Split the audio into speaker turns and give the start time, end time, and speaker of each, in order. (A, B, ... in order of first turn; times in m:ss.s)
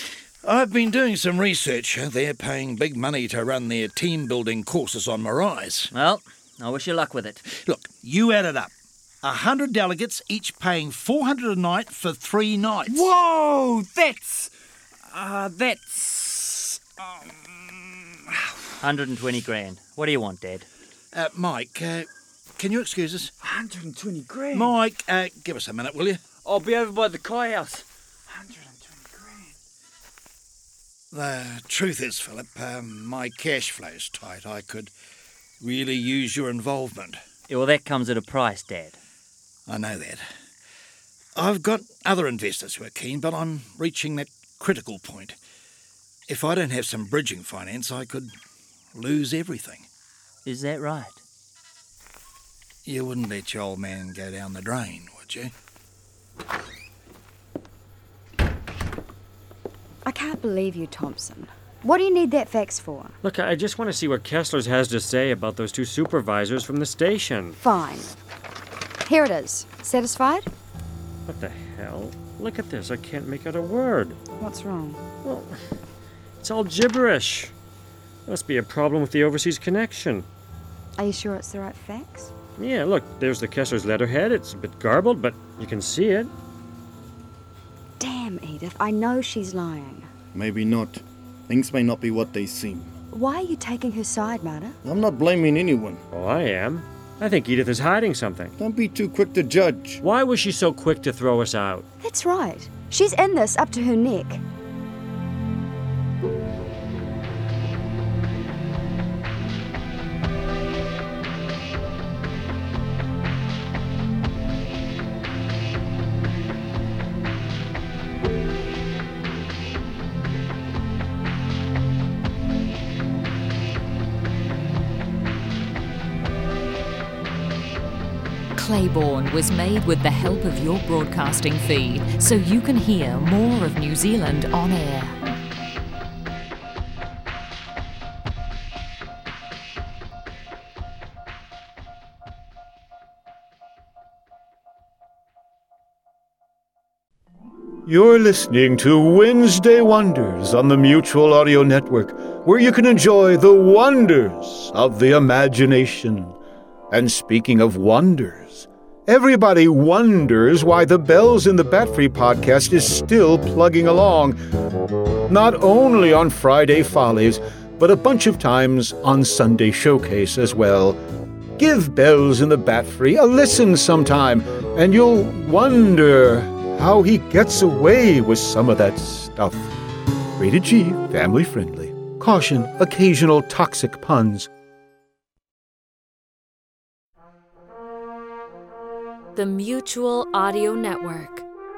0:00.4-0:05.9 A
0:05.9-0:07.4 B
0:07.5-0:13.0 A
0:12.8-0:14.5 C
0:15.1-0:18.0 C
0:18.8-0:20.7 B
0:21.1-0:23.3 A
0:23.4-0:24.7 C
0:24.5-0:26.2 A
0:26.4-0:29.5 C
0:31.1-0:34.9 A
0:35.6-0:37.2 A
0:37.5-0:39.0 B
0:39.7-0:40.2 A
0:41.4-0:45.4 A
0:46.3-0:48.3 A
0:48.9-0:49.8 A
0:50.4-0:51.2 B
0:52.8-0:55.5 A
1:00.0-1:03.2 D
1:03.2-1:07.6 E
1:07.6-1:08.1 D
1:09.0-1:10.5 D
1:11.3-1:14.2 E
1:14.4-1:15.0 D
1:15.2-1:15.6 E
1:16.4-1:17.5 E
1:18.2-1:20.3 E
1:21.0-1:22.3 D
1:22.6-1:26.3 E
1:28.0-1:30.1 D
1:30.3-1:32.9 F
1:33.1-1:34.8 D
1:34.8-1:36.0 F
1:36.1-1:38.6 E
1:38.6-1:40.0 F
1:40.0-1:41.8 E
1:42.0-1:44.4 D
2:08.5-2:15.2 G
2:27.8-2:36.4 H
2:36.9-2:44.4 H
2:45.3-2:51.0 H
2:51.6-2:59.7 H
3:00.4-3:04.5 H
3:09.4-3:11.4 G